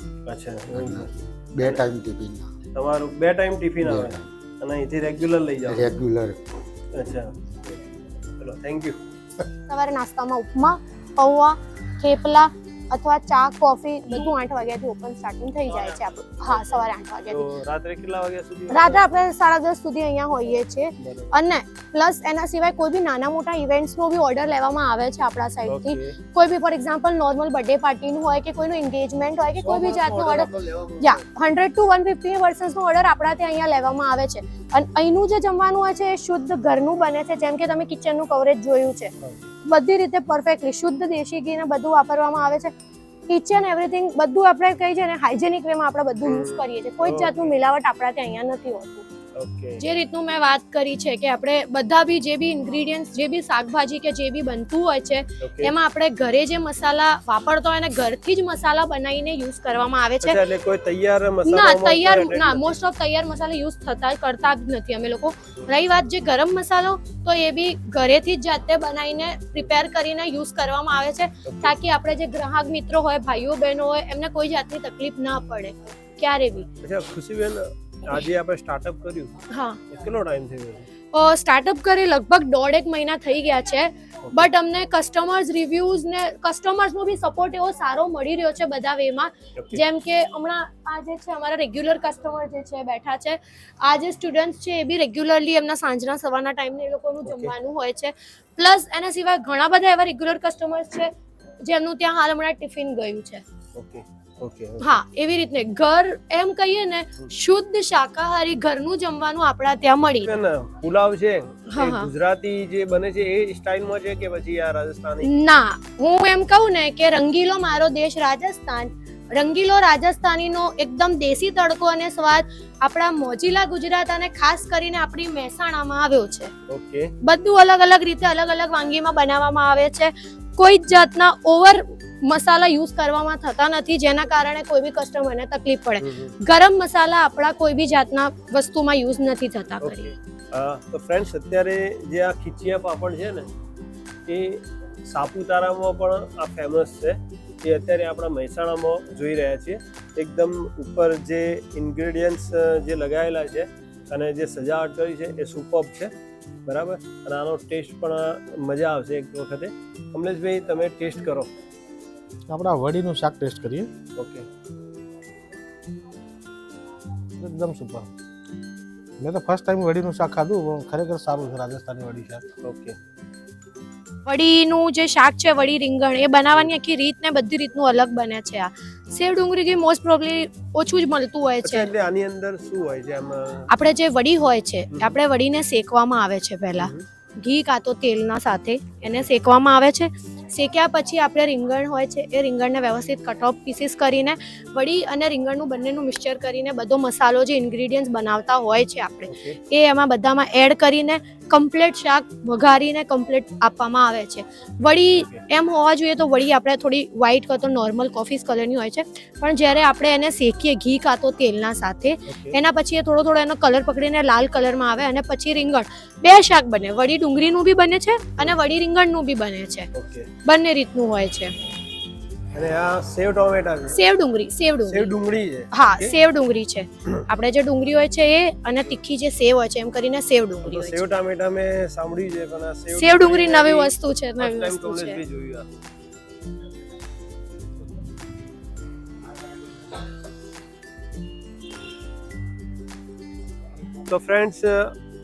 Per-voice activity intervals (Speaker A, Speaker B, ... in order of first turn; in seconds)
Speaker A: 0.2-1.1, 2.7-5.9, 6.9-7.7, 8.4-9.0, 15.7-19.2, 21.0-21.3, 25.7-26.1, 29.6-31.2, 46.2-47.5, 49.4-49.8, 55.4-55.7, 60.2-62.8, 71.5-71.8, 76.8-79.3, 79.9-80.9, 89.6-89.8, 97.3-97.5, 103.7-105.0, 110.2-115.3, 126.7-127.1, 136.0-136.3, 139.8-143.5, 144.2-156.1, 156.7-161.5, 164.2-164.4, 172.6-172.9, 181.6-183.7, 186.8-187.1, 189.0-189.3, 199.3-199.6, 205.1-205.4, 212.3-212.6, 219.9-220.3, 222.5-224.0, 224.9-226.1, 230.6-235.7, 244.1-244.9
Speaker B: 0.7-2.5, 3.8-4.3, 5.7-6.5
Speaker C: 9.7-17.4, 18.7-39.1, 39.6-42.7, 43.3-49.0, 49.8-60.4, 61.4-76.7, 79.5-79.8, 81.1-101.1, 101.6-103.4, 104.8-110.3, 111.7-112.1, 115.2-126.5, 127.2-140.1, 174.2-181.9, 183.7-219.9, 220.4-221.5, 223.9-225.1, 225.7-231.1, 232.9-235.2
Speaker D: 162.5-163.9, 167.4-168.1, 169.2-172.4